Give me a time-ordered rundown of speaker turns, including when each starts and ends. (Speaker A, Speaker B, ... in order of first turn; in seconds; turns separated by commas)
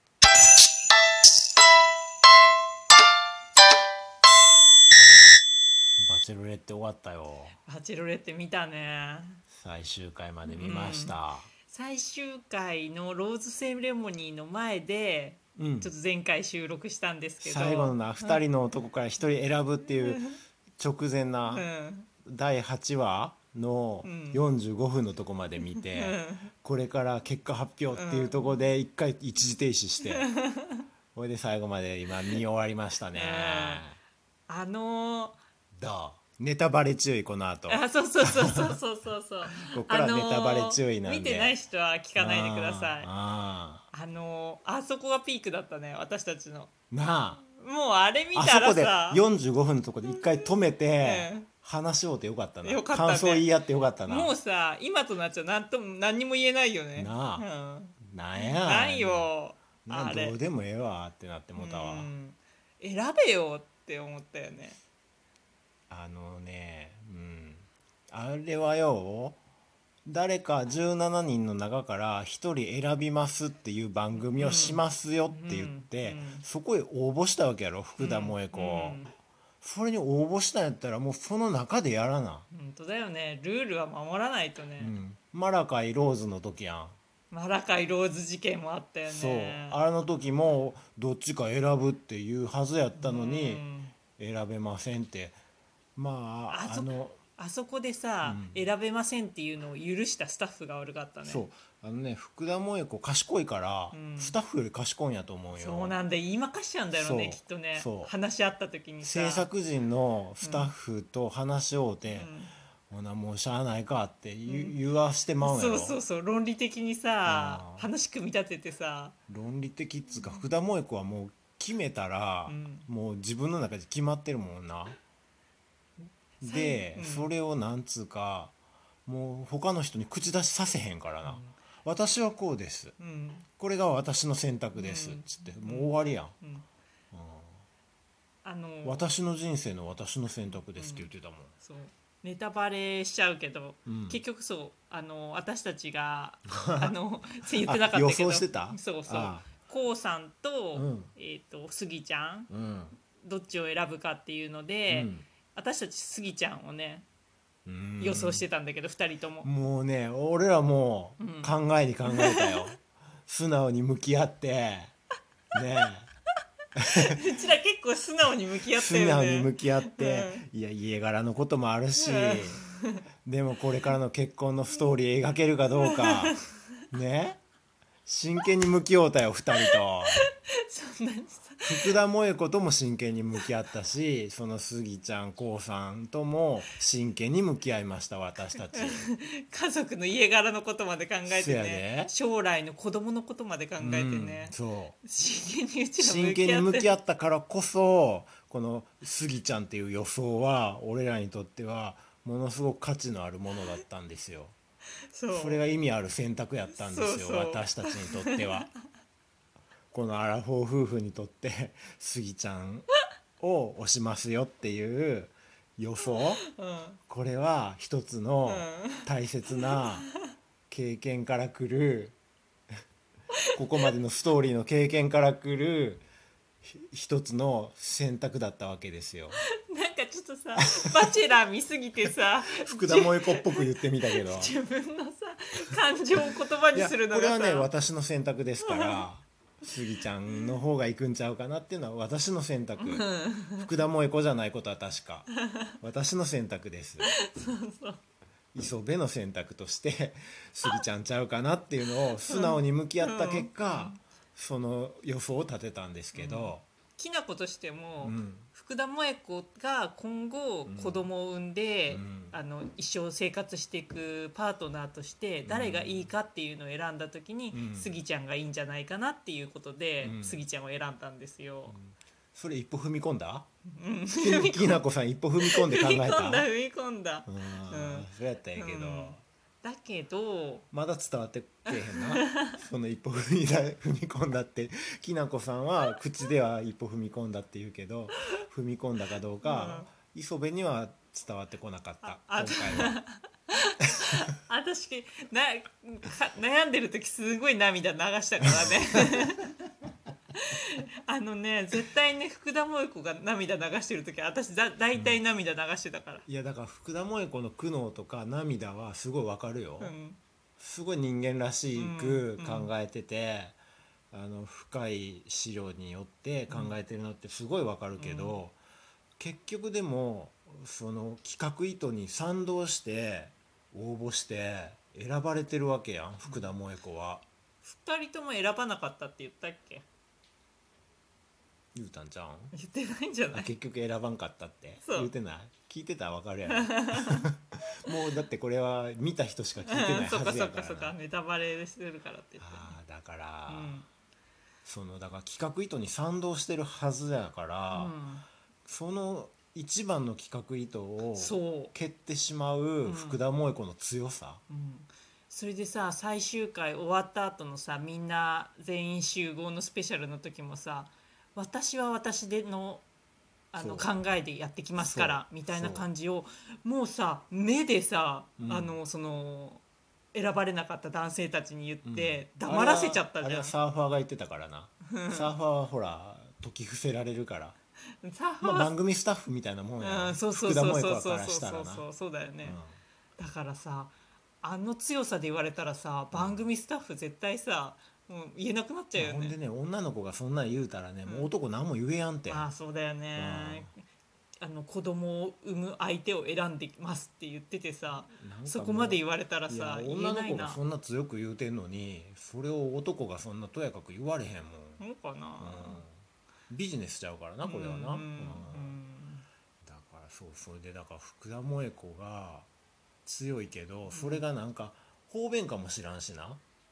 Speaker A: 6.0-7.5, Speaker B: 7.7-9.4, Speaker A: 9.5-11.5, Speaker B: 10.4-11.2, Speaker B: 11.7-18.4, Speaker A: 15.6-15.9, Speaker A: 17.4-21.7, Speaker B: 20.0-20.4, Speaker B: 21.5-22.1, Speaker A: 22.2-30.3, Speaker B: 24.0-24.4, Speaker B: 25.8-26.5, Speaker B: 27.9-28.7, Speaker B: 30.0-30.9, Speaker A: 31.1-34.0, Speaker B: 33.1-33.8, Speaker B: 34.5-35.4, Speaker A: 35.8-38.8, Speaker B: 37.7-43.1, Speaker A: 39.5-41.5, Speaker A: 42.1-43.9, Speaker B: 43.9-46.7, Speaker A: 46.9-47.4, Speaker B: 47.4-49.2, Speaker A: 48.3-54.4, Speaker B: 50.0-51.5, Speaker B: 52.6-53.5, Speaker B: 54.0-60.4, Speaker A: 57.0-57.5, Speaker A: 58.0-59.3, Speaker A: 59.9-62.1, Speaker B: 61.5-64.8, Speaker A: 65.9-69.4, Speaker A: 70.0-79.0, Speaker B: 74.3-76.4, Speaker B: 78.0-79.1, Speaker A: 79.6-82.5, Speaker B: 82.5-84.9, Speaker A: 84.8-87.0, Speaker B: 87.3-89.8, Speaker A: 89.1-95.4, Speaker B: 92.9-94.0, Speaker A: 96.0-97.2, Speaker B: 96.5-101.5, Speaker A: 98.2-98.7, Speaker A: 101.2-106.0, Speaker B: 103.9-104.3, Speaker B: 105.5-109.5, Speaker A: 106.9-108.1, Speaker A: 109.0-112.3, Speaker B: 110.4-110.7, Speaker B: 112.1-112.5, Speaker A: 112.9-116.0, Speaker B: 114.5-114.8, Speaker B: 115.4-119.2, Speaker A: 117.2-117.9, Speaker A: 119.3-125.0, Speaker B: 120.1-120.4, Speaker B: 122.5-122.9, Speaker A: 126.4-128.5, Speaker B: 126.4-127.3, Speaker A: 129.1-132.9, Speaker B: 131.2-131.6, Speaker B: 133.0-133.4, Speaker A: 133.6-136.3, Speaker B: 134.7-136.7, Speaker A: 137.1-137.6, Speaker B: 138.4-139.1, Speaker A: 138.8-141.5, Speaker B: 140.8-141.1, Speaker B: 141.6-152.5, Speaker A: 143.8-144.2, Speaker A: 146.5-146.9, Speaker A: 147.6-149.5, Speaker A: 150.7-151.1, Speaker A: 152.5-152.9, Speaker B: 153.2-157.1, Speaker A: 154.9-155.2, Speaker A: 157.7-158.4, Speaker B: 158.0-159.5, Speaker A: 159.4-164.9, Speaker B: 161.2-161.5, Speaker B: 162.1-162.7, Speaker A: 165.5-166.1, Speaker A: 166.7-167.2, Speaker B: 167.0-170.4, Speaker A: 168.7-172.6, Speaker B: 172.0-173.0, Speaker A: 173.2-176.4, Speaker B: 175.7-176.4, Speaker A: 176.9-177.4, Speaker A: 178.1-180.2, Speaker B: 179.6-181.9, Speaker A: 181.6-189.1, Speaker B: 188.7-196.9, Speaker A: 191.2-192.1, Speaker A: 193.8-195.0, Speaker A: 196.0-204.5, Speaker B: 205.1-205.6, Speaker A: 205.3-208.7, Speaker B: 206.7-208.6, Speaker A: 209.9-212.9, Speaker A: 213.4-216.4, Speaker B: 216.4-217.0, Speaker A: 217.1-220.1, Speaker B: 218.4-220.1, Speaker A: 220.7-222.2, Speaker A: 223.5-226.0, Speaker A: 226.6-229.4, Speaker B: 229.4-237.7, Speaker A: 230.6-230.9, Speaker A: 232.5-234.5, Speaker A: 236.7-247.1, Speaker B: 238.6-239.0, Speaker B: 242.8-243.7, Speaker B: 245.3-245.7, Speaker B: 247.0-248.0, Speaker A: 248.5-256.6, Speaker B: 252.3-254.0, Speaker B: 256.1-271.8, Speaker A: 258.0-258.5, Speaker A: 260.6-261.1, Speaker A: 261.9-262.3, Speaker A: 265.4-266.1, Speaker A: 267.5-267.9, Speaker A: 270.0-270.4, Speaker A: 271.7-273.5, Speaker B: 273.7-274.8, Speaker A: 274.1-276.5, Speaker B: 275.4-280.6, Speaker A: 277.3-279.2, Speaker A: 280.7-293.0, Speaker B: 281.7-282.6, Speaker B: 289.4-289.9, Speaker B: 292.0-299.6, Speaker B: 300.3-306.2, Speaker A: 304.9-305.2, Speaker A: 306.2-309.9, Speaker B: 309.8-310.2, Speaker A: 310.6-313.6, Speaker B: 311.7-312.7, Speaker A: 314.1-318.6, Speaker B: 316.5-316.7, Speaker B: 318.0-318.4, Speaker A: 319.2-327.2, Speaker B: 326.2-326.5, Speaker B: 327.6-329.8, Speaker A: 331.7-332.5, Speaker B: 332.5-333.5, Speaker A: 333.3-340.9, Speaker B: 334.8-335.1, Speaker B: 336.5-337.3, Speaker B: 339.7-342.8, Speaker A: 342.4-343.8, Speaker B: 343.5-343.9, Speaker A: 344.6-347.9, Speaker B: 347.7-348.2, Speaker A: 348.6-354.4, Speaker B: 351.1-351.7, Speaker B: 352.8-353.2, Speaker B: 354.5-362.9, Speaker B: 363.5-373.5, Speaker A: 363.6-363.9, Speaker A: 364.8-365.9, Speaker A: 368.4-368.8, Speaker A: 371.8-377.6, Speaker B: 374.9-375.3, Speaker B: 378.0-378.7, Speaker A: 378.4-381.9, Speaker B: 379.8-382.6, Speaker A: 382.4-382.8, Speaker B: 383.2-389.4, Speaker A: 386.1-386.4, Speaker A: 388.9-392.5, Speaker B: 392.3-393.7, Speaker A: 393.1-393.7, Speaker B: 394.4-400.6, Speaker A: 397.9-404.8, Speaker B: 404.8-405.8, Speaker A: 405.4-408.8, Speaker B: 407.4-409.2, Speaker A: 409.6-412.5, Speaker A: 413.0-416.4, Speaker B: 413.9-414.2